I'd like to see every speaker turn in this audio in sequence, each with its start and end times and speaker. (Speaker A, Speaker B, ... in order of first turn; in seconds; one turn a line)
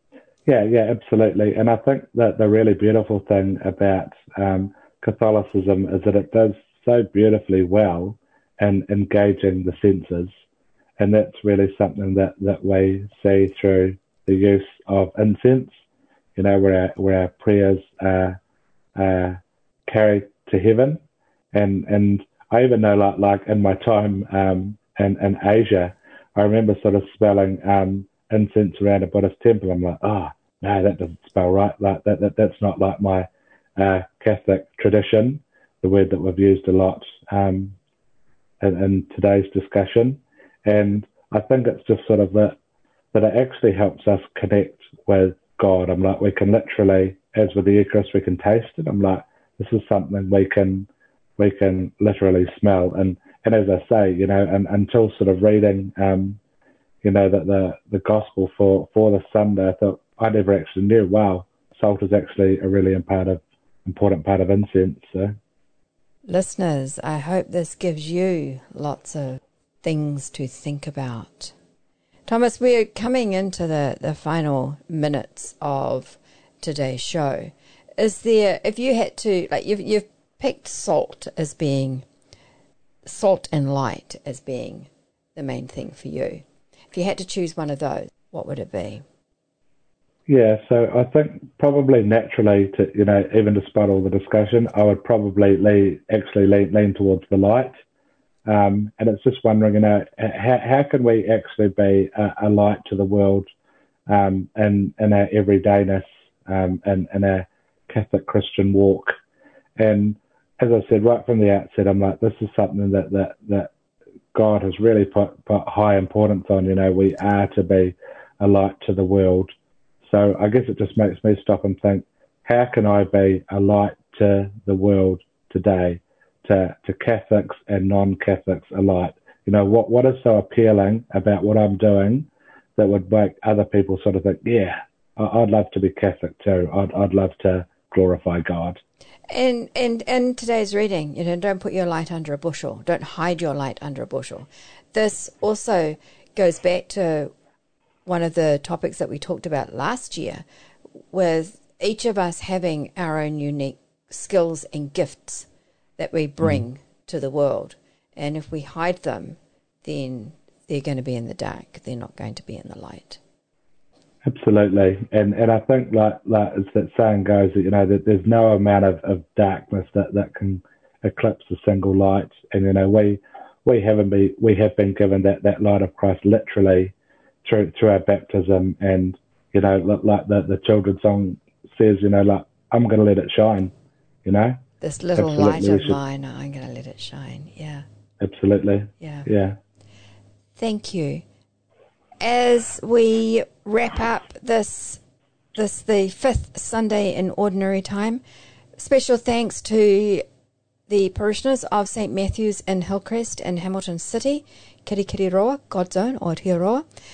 Speaker A: 0.5-10.3
Speaker A: 11.0-15.8
Speaker A: 16.4-18.4
Speaker A: 18.9-21.0
Speaker A: 21.5-37.8
Speaker A: 38.6-42.6
Speaker A: 43.1-56.4
Speaker A: 57.0-65.4
Speaker B: 66.3-71.5
Speaker B: 72.3-82.0
Speaker B: 83.1-89.0
Speaker A: 90.3-97.8
Speaker A: 98.5-103.5
Speaker A: 104.1-109.2
Speaker A: 109.8-113.7
Speaker A: 114.3-119.5
Speaker A: 120.0-138.8
Speaker B: 139.3-147.3
Speaker B: 148.1-150.4
Speaker B: 151.1-155.5
Speaker B: 156.0-163.2
Speaker A: 164.2-183.7
Speaker A: 184.2-184.6
Speaker B: 184.8-187.8
Speaker A: 185.2-186.0
Speaker A: 188.2-189.6
Speaker B: 189.0-189.3
Speaker B: 190.6-191.2
Speaker B: 192.2-195.0
Speaker B: 195.6-198.2
Speaker B: 198.8-200.2
Speaker B: 200.9-206.8